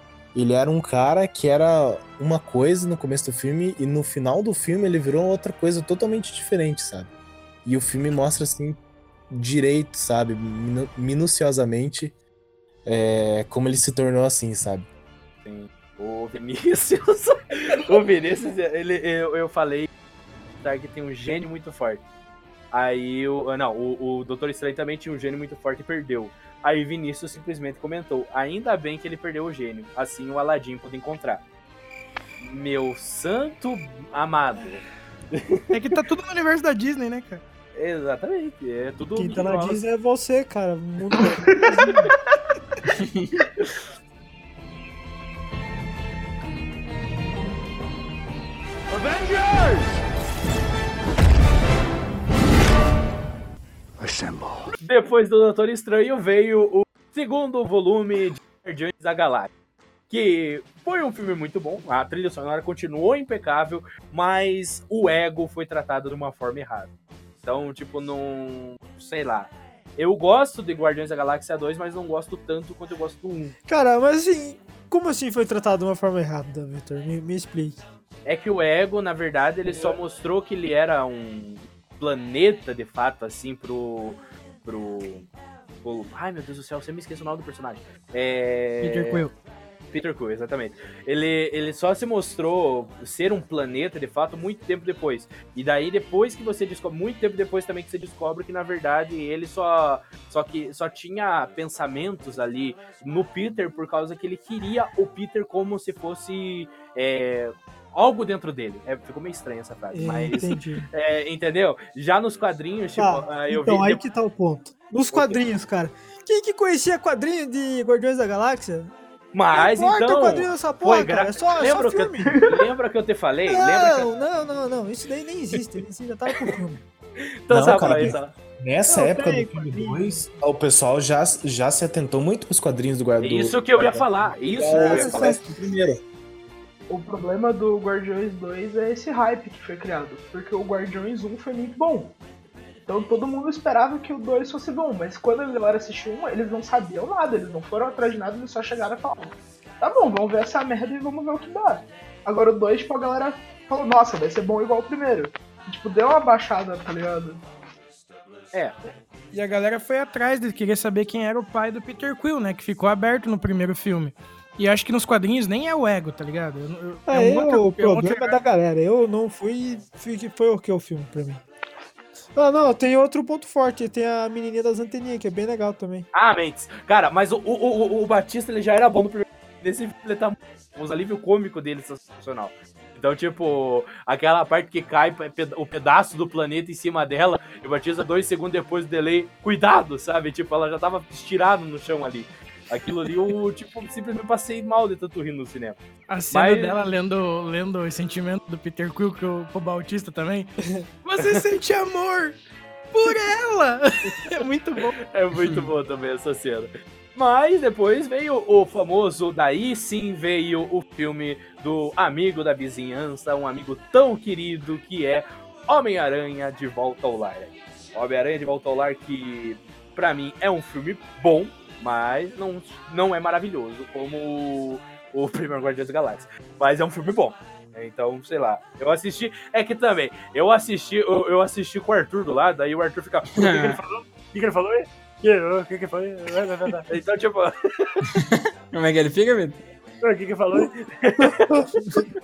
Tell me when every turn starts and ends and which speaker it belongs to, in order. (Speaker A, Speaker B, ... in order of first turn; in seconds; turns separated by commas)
Speaker A: 0.3-7.1, Speaker A: 7.6-12.1, Speaker A: 12.8-14.9, Speaker B: 15.4-19.9, Speaker B: 20.6-22.0, Speaker B: 22.7-31.4, Speaker B: 32.4-36.0, Speaker C: 35.7-37.4, Speaker B: 37.7-39.8, Speaker D: 39.1-42.1, Speaker E: 41.3-42.1, Speaker B: 49.0-49.8, Speaker B: 54.8-59.5, Speaker B: 60.1-73.5, Speaker D: 73.7-77.8, Speaker B: 78.2-85.3, Speaker B: 85.8-89.2, Speaker C: 88.8-89.3, Speaker B: 89.9-114.0, Speaker D: 109.9-110.9, Speaker D: 113.0-118.9, Speaker B: 115.1-115.4, Speaker B: 119.3-124.1, Speaker D: 119.5-122.4, Speaker E: 122.3-122.5, Speaker D: 123.5-126.8, Speaker B: 127.4-128.3, Speaker A: 127.5-136.0, Speaker D: 128.9-130.2, Speaker B: 133.2-135.5, Speaker D: 134.7-135.4, Speaker E: 136.9-142.2, Speaker E: 142.9-157.4, Speaker C: 159.3-168.4, Speaker D: 167.1-171.4, Speaker D: 172.3-176.1, Speaker B: 176.1-195.8, Speaker C: 196.1-200.5, Speaker B: 196.3-196.7, Speaker C: 201.0-202.3, Speaker C: 202.9-204.9, Speaker B: 205.0-233.4, Speaker F: 233.3-233.8, Speaker C: 233.7-234.5, Speaker C: 235.2-236.8, Speaker B: 236.8-238.1, Speaker F: 238.1-239.6, Speaker B: 240.5-242.1